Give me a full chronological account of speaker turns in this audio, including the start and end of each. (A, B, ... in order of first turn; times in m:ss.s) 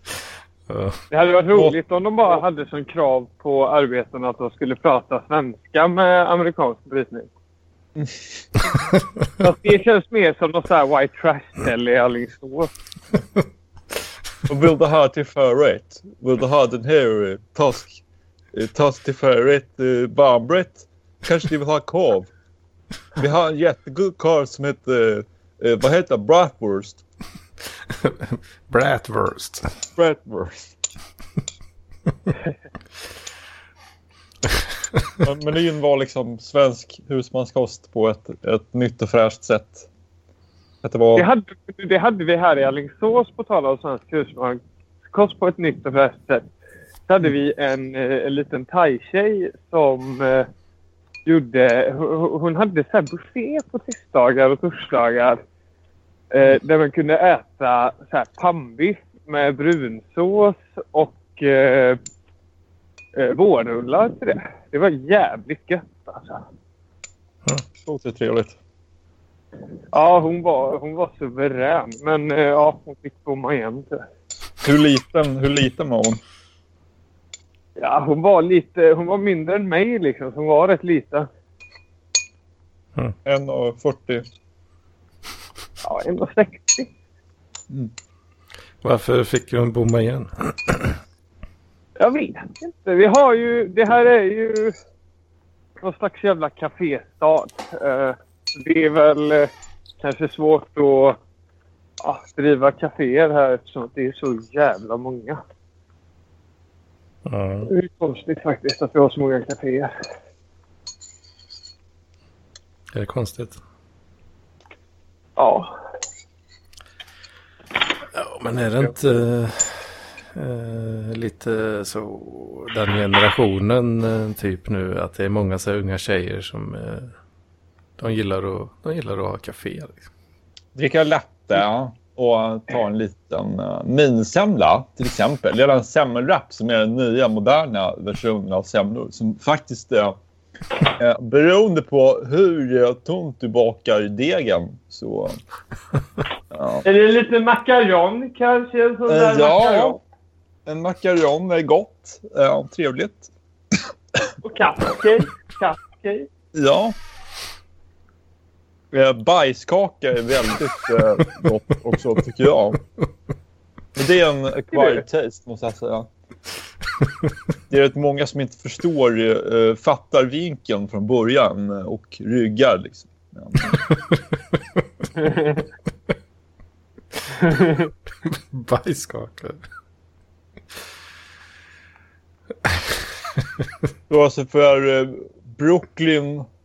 0:00.7-0:01.0 A
0:01.1-0:07.3 B
0:08.0-0:08.3 C
0:09.4-0:12.7 B
0:14.5-0:18.0 C
0:18.5-0:22.3 C
0:23.2-0:27.0 C
0:28.0-0:29.7 A
0:30.0-0:30.7 C
0:35.2-0:39.9 C
0:40.8-0:41.3 C
0:41.2-0:44.6 B
0:45.1-0:46.5 B
0:47.1-0:50.5 B
0:51.2-0:55.4 B
0:56.3-1:02.0 B
1:03.2-1:06.4 B
1:07.8-1:08.6 C
1:09.9-1:14.0 B
1:14.6-1:16.2 C
1:17.8-1:21.3 B
1:23.2-1:24.2 C
1:25.8-1:26.9 B
1:28.8-1:30.9 A
1:32.0-1:34.7 B
1:35.8-1:41.2 B
1:42.0-1:45.4 B
1:47.3-1:47.7 A
1:47.6-1:50.0 B
1:52.9-1:53.6 A
1:55.4-1:55.7 B
1:58.1-2:07.1 A
2:08.0-2:10.0 A
2:10.7-2:20.2 C
2:21.0-2:25.4 C
2:26.5-2:26.9 C
2:26.8-2:30.0 B
2:29.1-2:30.0 C
2:30.6-2:33.3 C
2:34.4-2:36.3 B
2:36.5-2:37.0 C
2:38.9-2:42.8 C
2:44.0-2:46.1 C
2:44.7-2:45.0 B
2:47.7-2:53.7 C
2:58.2-2:59.6 A
3:04.1-3:06.4 C